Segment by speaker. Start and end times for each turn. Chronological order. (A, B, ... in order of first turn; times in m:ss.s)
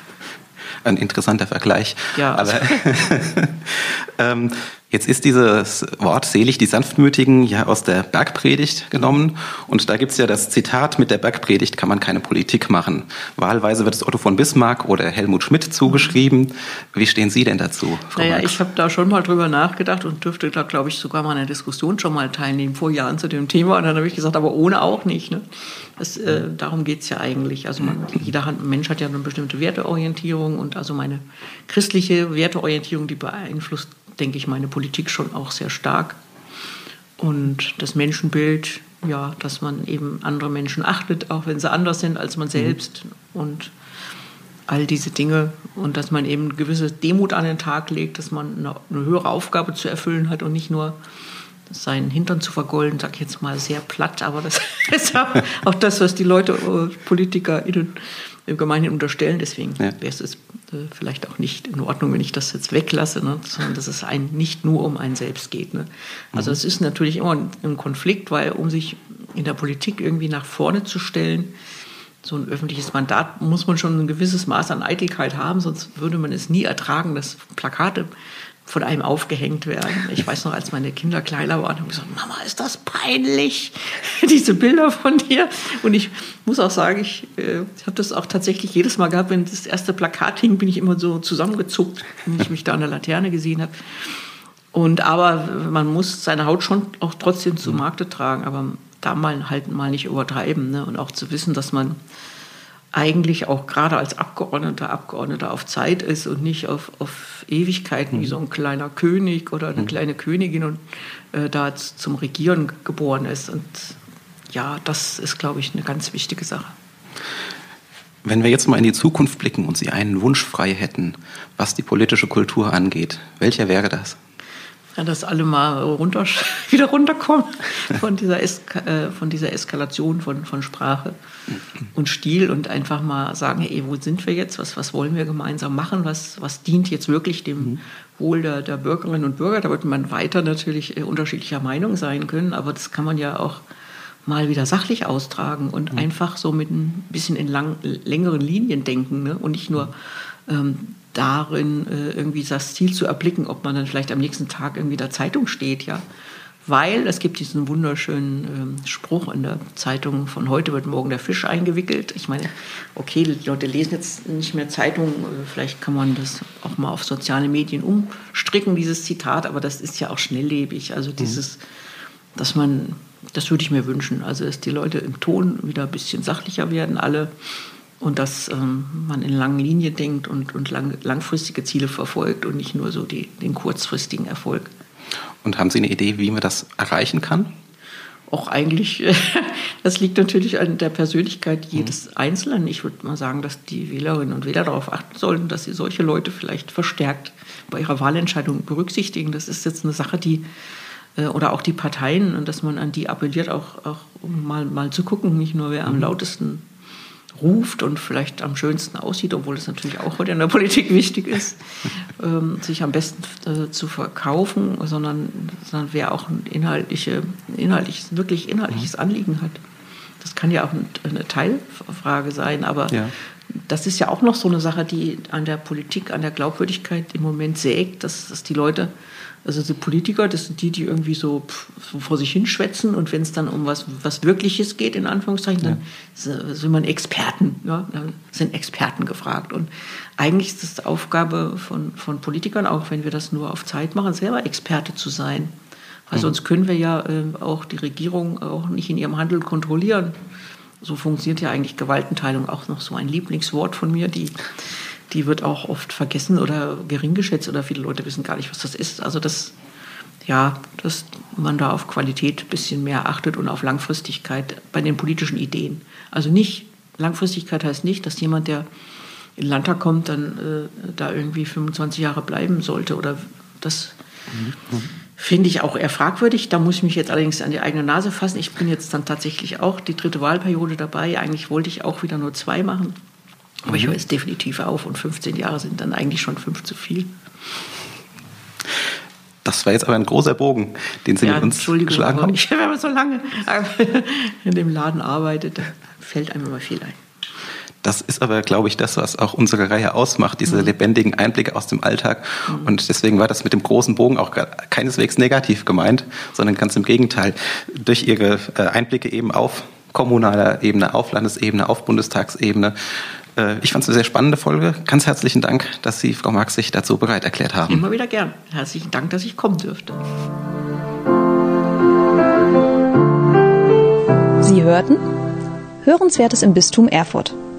0:00.8-0:18.6 A
0:02.1-0:02.9 B
0:15.8-0:16.2 B
0:18.1-0:36.2 B
0:37.2-0:43.7 B
0:44.7-0:51.0 B
0:51.7-1:11.5 B
1:12.2-1:18.1 B
1:18.6-1:33.9 B
1:34.7-1:42.0 B
1:42.9-1:54.0 B
1:54.5-1:56.7 B
1:58.2-2:04.2 A
2:04.9-2:11.1 B
2:11.9-2:23.6 B
2:24.2-2:36.0 B
2:36.6-2:51.6 B
2:52.4-2:57.3 B
2:58.0-3:04.7 B
3:05.4-3:07.5 A
3:08.3-3:20.4 B
3:21.2-3:26.6 B
3:27.4-3:39.6 B
3:40.2-3:48.9 B
3:49.4-4:05.5 B
4:06.1-4:10.1 B
4:10.8-4:19.6 B
4:20.2-4:28.6 B
4:29.4-4:34.0 B
4:34.4-4:34.9 A
4:35.2-4:43.0 B
4:43.6-4:47.1 B
4:49.4-4:52.4 A
4:51.2-4:57.0 B
4:57.8-5:12.7 A
5:00.5-5:00.7 B
5:13.4-5:17.8 A
5:17.7-5:20.0 B
5:24.4-5:25.0 C
5:25.8-5:27.4 C